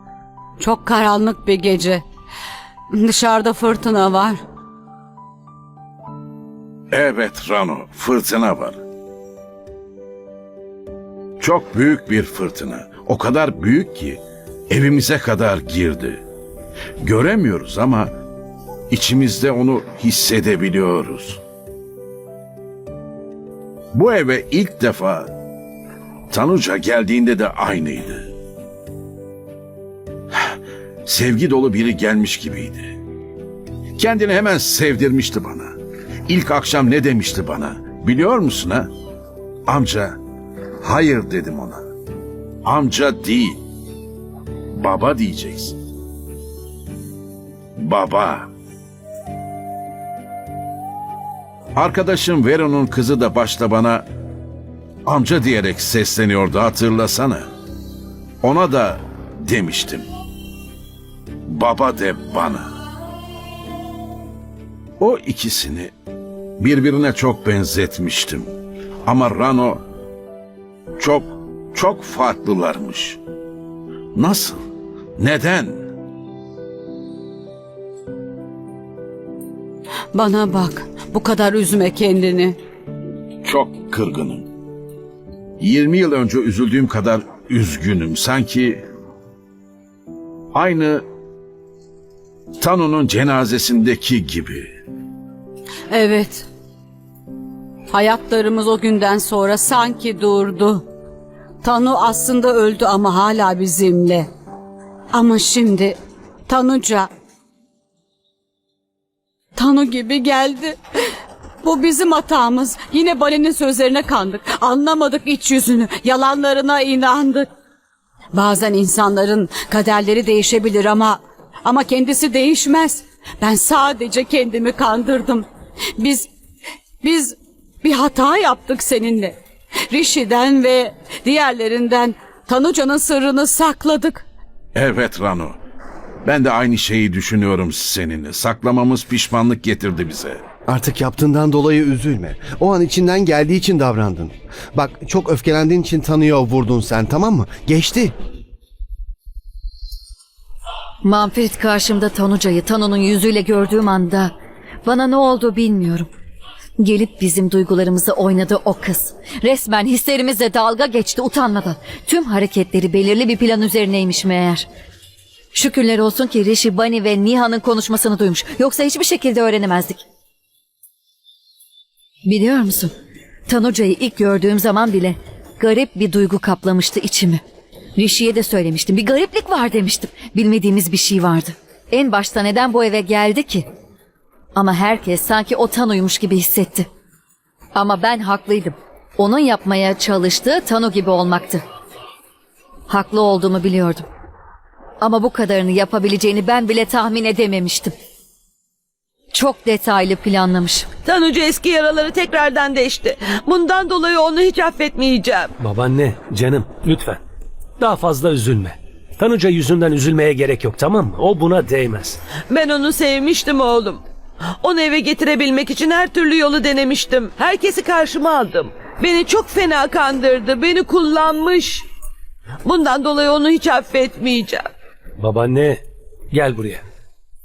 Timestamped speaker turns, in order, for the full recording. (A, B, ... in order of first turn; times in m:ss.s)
0:00.6-0:02.0 A
0:02.9-0:04.4 A
0:06.9-0:08.8 B
0:11.4-0:16.2 B
0:17.0-0:18.1 B
0:18.9-0:21.4 B
0:23.9-0:25.3 B
0:26.3-0:28.3 B
0:31.0-0:32.9 B
0:34.0-0:35.7 B
0:36.3-0:38.9 B
0:39.7-0:40.2 B
0:40.8-0:41.8 B
0:42.6-0:43.6 B
0:44.7-0:45.8 B
0:47.8-0:48.5 B
0:51.8-0:54.0 B
0:55.0-0:57.5 B
0:58.4-1:00.1 B
1:01.5-1:02.7 B
1:05.0-1:05.9 B
1:06.6-1:08.5 B
1:09.0-1:09.8 B
1:11.0-1:13.2 B
1:14.1-1:14.6 B
1:15.2-1:15.9 B
1:20.1-1:22.6 A
1:23.4-1:24.5 B
1:25.6-1:28.8 B
1:30.5-1:31.0 B
1:32.6-1:34.7 B
1:35.9-1:36.5 A
1:37.9-1:40.8 A
1:41.6-1:44.3 A
1:45.1-1:46.0 A
1:46.5-1:47.1 A
1:49.6-1:50.8 A
1:51.6-1:57.5 A
1:58.3-2:05.4 A
2:06.0-2:06.3 A
2:07.0-2:09.4 A
2:09.9-2:14.2 A
2:14.8-2:15.6 B
2:16.2-2:20.5 B
2:20.7-2:28.1 C
2:31.0-2:36.1 D
2:36.8-2:44.7 D
2:45.5-2:50.0 D
2:52.3-2:52.9 D
2:53.5-2:57.4 D
2:58.0-3:03.7 D
3:04.6-3:06.9 D
3:07.7-3:11.6 D
3:12.9-3:14.1 D
3:15.0-3:17.9 D
3:19.3-3:20.9 D
3:21.0-3:25.5 E
3:25.6-3:27.2 F
3:27.8-3:32.2 F
3:32.5-3:34.0 E
3:34.6-3:41.8 E
3:42.6-3:44.7 E
3:45.2-3:46.9 F